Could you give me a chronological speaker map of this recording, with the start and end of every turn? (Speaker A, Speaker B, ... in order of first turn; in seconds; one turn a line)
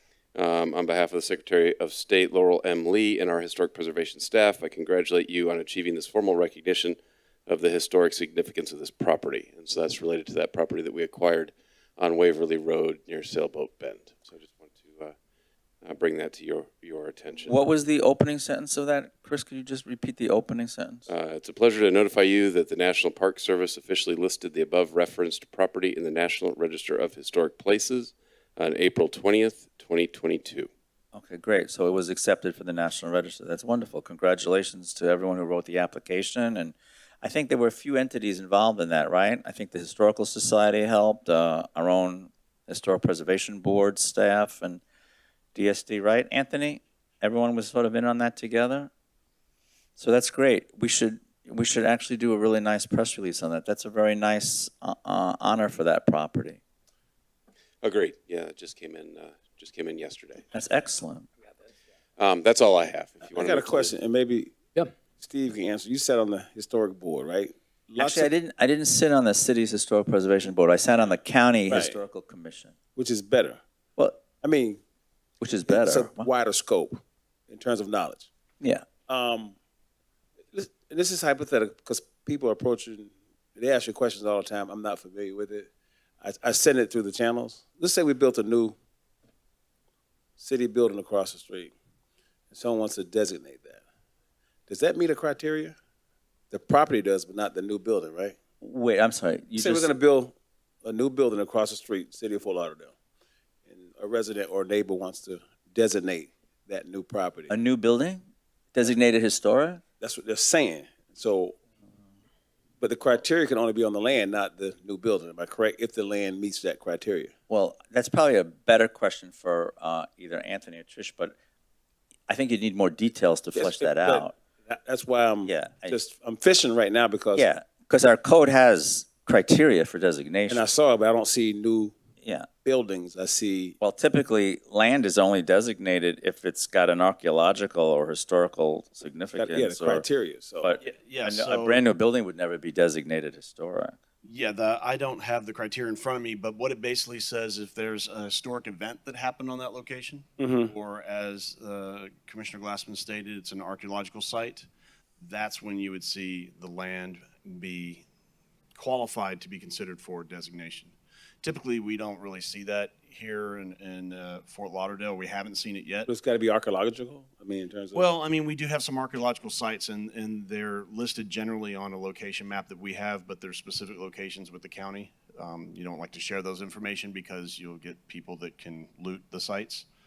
Speaker A: 0.3-15.1
Speaker A: 15.8-17.6
Speaker B: 17.5-21.1
Speaker A: 21.1-30.7
Speaker B: 31.1-44.8
Speaker B: 45.5-48.9
Speaker B: 50.0-56.6
Speaker A: 57.8-60.4
Speaker B: 60.5-61.3
Speaker A: 62.2-63.9
Speaker C: 63.2-64.5
Speaker C: 65.2-68.3
Speaker B: 68.0-72.7
Speaker C: 71.7-72.0
Speaker C: 73.0-73.6
Speaker C: 74.4-74.8
Speaker B: 75.4-76.3
Speaker C: 75.7-78.3
Speaker B: 78.6-78.8
Speaker C: 79.1-79.5
Speaker C: 80.5-85.7
Speaker C: 86.2-88.7
Speaker C: 90.4-91.7
Speaker C: 92.5-93.8
Speaker C: 94.7-95.7
Speaker C: 96.5-98.3
Speaker B: 98.6-99.9
Speaker C: 99.5-102.9
Speaker C: 103.7-107.5
Speaker B: 107.5-108.2
Speaker B: 108.7-109.8
Speaker C: 110.0-111.5
Speaker C: 112.8-117.3
Speaker B: 117.5-121.3
Speaker B: 122.3-124.3
Speaker C: 123.5-127.5
Speaker B: 125.4-126.0
Speaker B: 127.3-130.6
Speaker C: 130.5-131.9
Speaker B: 132.2-132.5
Speaker C: 132.6-133.8
Speaker B: 133.8-140.1
Speaker C: 139.3-140.7
Speaker B: 140.6-143.9
Speaker D: 140.8-141.8
Speaker D: 144.2-154.7
Speaker C: 150.4-150.7
Speaker D: 155.2-158.0
Speaker D: 158.7-166.1
Speaker C: 166.1-168.1
Speaker D: 167.9-179.8